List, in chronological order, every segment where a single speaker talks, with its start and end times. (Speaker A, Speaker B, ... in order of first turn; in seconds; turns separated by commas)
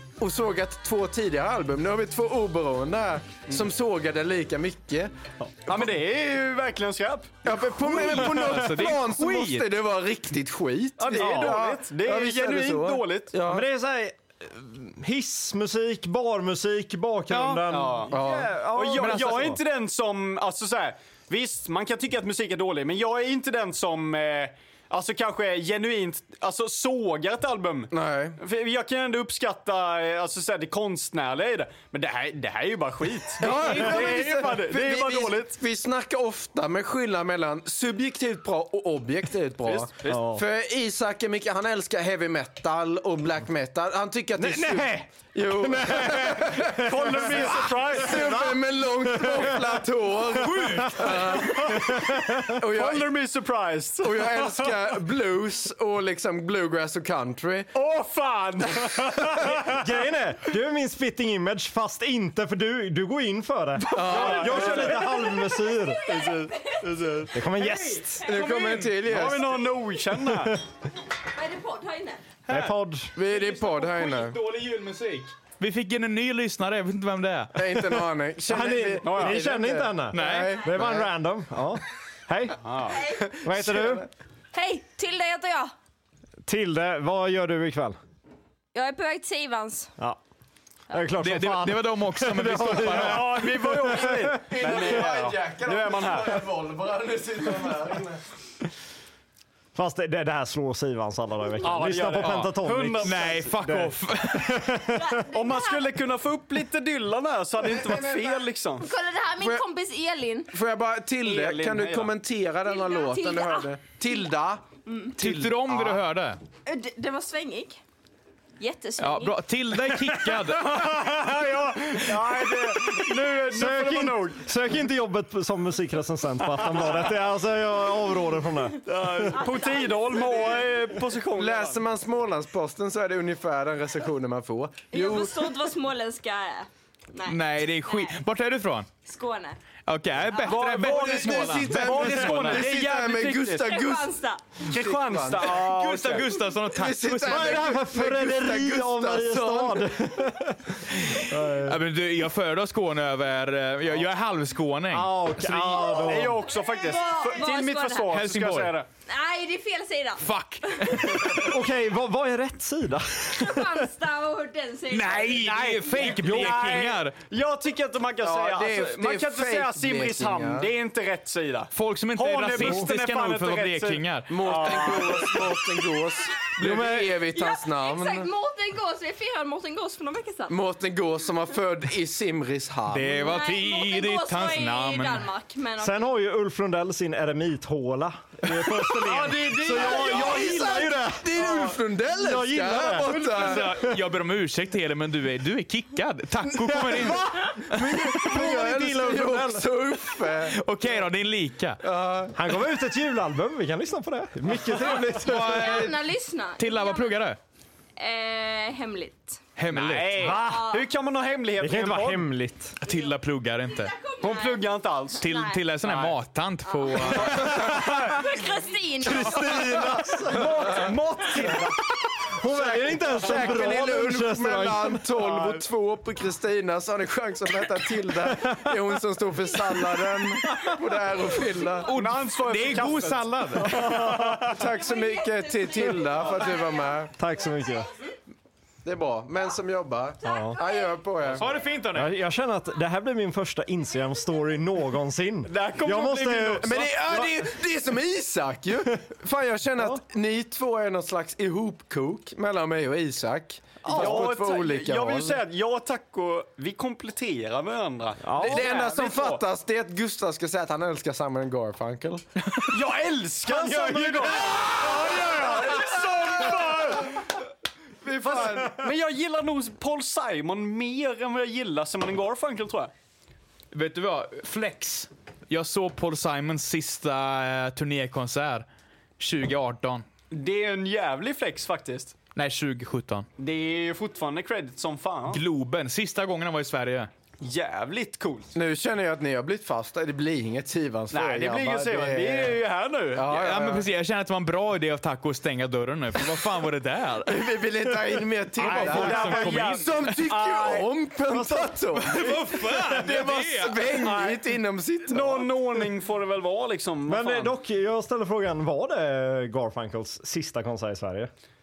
Speaker A: 0.2-5.1, Speaker B: 5.7-7.3, Speaker A: 7.4-13.7, Speaker C: 7.8-9.7, Speaker B: 11.0-13.4, Speaker D: 11.2-11.6, Speaker D: 13.4-19.6, Speaker C: 17.3-17.6, Speaker B: 17.7-35.5, Speaker A: 18.1-18.5, Speaker C: 18.9-19.4, Speaker A: 27.9-28.4, Speaker A: 33.4-53.1, Speaker B: 39.6-40.2, Speaker D: 40.0-40.4, Speaker D: 44.4-49.8, Speaker B: 46.8-48.4, Speaker D: 50.4-52.6, Speaker B: 50.5-54.8, Speaker A: 54.0-57.7, Speaker B: 57.7-59.8, Speaker A: 58.8-59.4, Speaker D: 59.5-66.0, Speaker A: 63.9-65.0, Speaker B: 64.0-65.2, Speaker E: 65.1-67.2, Speaker B: 66.0-67.9, Speaker D: 67.2-68.2, Speaker A: 68.2-69.7, Speaker C: 68.4-68.9, Speaker B: 68.9-70.5, Speaker D: 70.1-70.6, Speaker E: 71.3-72.2, Speaker D: 72.5-73.1, Speaker A: 73.1-74.4, Speaker C: 73.2-77.5, Speaker A: 77.5-81.1, Speaker D: 78.5-84.1, Speaker B: 79.0-79.4, Speaker C: 80.1-80.6, Speaker B: 82.6-83.0, Speaker E: 82.9-83.3, Speaker A: 83.3-84.1, Speaker E: 84.5-85.7, Speaker D: 86.5-88.0, Speaker E: 88.7-89.9, Speaker D: 90.9-94.7, Speaker C: 91.2-93.4, Speaker B: 92.9-96.4, Speaker A: 94.3-98.2, Speaker D: 99.7-105.3, Speaker B: 101.6-103.4, Speaker C: 102.1-104.8, Speaker E: 105.0-105.9, Speaker B: 105.3-108.9, Speaker A: 107.8-108.4, Speaker E: 108.8-110.5, Speaker A: 109.4-109.6, Speaker A: 110.5-114.6, Speaker B: 111.2-112.1, Speaker E: 112.6-113.7, Speaker E: 114.8-115.1, Speaker A: 115.2-116.0, Speaker C: 115.2-116.4, Speaker E: 116.7-117.8, Speaker E: 118.6-119.4, Speaker C: 119.0-121.0, Speaker B: 120.4-124.4, Speaker D: 122.2-129.5, Speaker B: 126.6-126.9, Speaker B: 128.8-131.8, Speaker E: 129.4-130.5, Speaker A: 131.3-135.5, Speaker E: 134.9-138.2, Speaker C: 137.2-138.9, Speaker E: 139.0-139.6, Speaker C: 139.9-142.6, Speaker B: 140.4-143.8, Speaker A: 140.8-145.5, Speaker E: 143.5-144.5, Speaker B: 144.6-146.2, Speaker C: 145.4-147.7, Speaker A: 146.7-150.0, Speaker D: 147.2-151.8, Speaker C: 151.2-155.7, Speaker D: 154.9-156.5, Speaker B: 155.5-158.9, Speaker E: 156.5-158.2, Speaker C: 158.1-158.8, Speaker E: 159.1-160.2, Speaker C: 160.2-161.6, Speaker E: 160.8-161.4, Speaker D: 161.4-163.9, Speaker E: 163.3-165.5, Speaker C: 164.9-167.1, Speaker B: 165.2-175.4, Speaker A: 168.2-170.7, Speaker C: 171.7-174.5, Speaker D: 172.6-172.9, Speaker A: 174.3-178.3, Speaker D: 176.6-177.2, Speaker E: 177.3-180.6, Speaker A: 180.5-183.3, Speaker C: 182.9-185.2, Speaker E: 183.2-186.1, Speaker D: 185.8-194.0, Speaker A: 188.6-193.7, Speaker B: 189.7-190.0, Speaker C: 193.2-198.0, Speaker D: 196.6-199.6, Speaker A: 197.6-200.6, Speaker C: 200.5-201.8, Speaker A: 201.8-202.4, Speaker D: 202.3-205.7, Speaker A: 204.8-205.5, Speaker C: 204.9-207.4, Speaker E: 205.4-207.2, Speaker E: 208.0-209.4, Speaker C: 209.6-210.3, Speaker B: 209.7-212.3, Speaker D: 210.2-210.7, Speaker E: 210.3-210.9, Speaker D: 211.6-212.7, Speaker C: 212.8-213.9, Speaker E: 213.8-215.6, Speaker B: 214.2-215.2, Speaker C: 215.2-217.8, Speaker B: 215.8-216.2, Speaker E: 216.7-220.0, Speaker B: 217.0-218.2, Speaker D: 217.6-218.0, Speaker D: 219.0-221.6, Speaker A: 219.5-219.9, Speaker B: 220.3-221.8, Speaker A: 220.4-220.9, Speaker D: 222.3-225.1, Speaker A: 222.5-231.9, Speaker D: 228.3-228.7, Speaker C: 231.8-233.9, Speaker B: 231.9-234.6, Speaker D: 233.6-234.5, Speaker A: 234.4-237.1, Speaker E: 234.6-237.1, Speaker D: 237.1-237.9, Speaker A: 238.8-241.4, Speaker E: 240.2-240.9, Speaker D: 240.2-240.6, Speaker C: 241.4-242.1, Speaker D: 241.9-246.8, Speaker B: 245.5-247.3, Speaker A: 246.6-255.4, Speaker D: 253.8-254.4, Speaker B: 253.9-259.4, Speaker D: 258.2-258.7, Speaker A: 258.4-262.2, Speaker B: 262.7-267.2, Speaker D: 263.5-264.2, Speaker A: 264.4-266.4, Speaker A: 268.0-268.8, Speaker B: 268.1-272.9, Speaker C: 273.7-278.6, Speaker C: 279.2-280.0, Speaker B: 280.3-282.1, Speaker C: 282.3-283.3, Speaker B: 283.4-285.4, Speaker C: 285.3-287.1, Speaker B: 287.4-288.5, Speaker A: 288.5-292.6, Speaker B: 291.1-293.3, Speaker A: 293.1-293.9, Speaker C: 293.2-297.4, Speaker A: 297.2-305.5, Speaker B: 298.6-300.9, Speaker C: 298.6-300.1, Speaker D: 301.3-301.8, Speaker C: 301.9-303.9, Speaker B: 303.9-304.4, Speaker B: 305.0-307.5, Speaker D: 307.1-311.3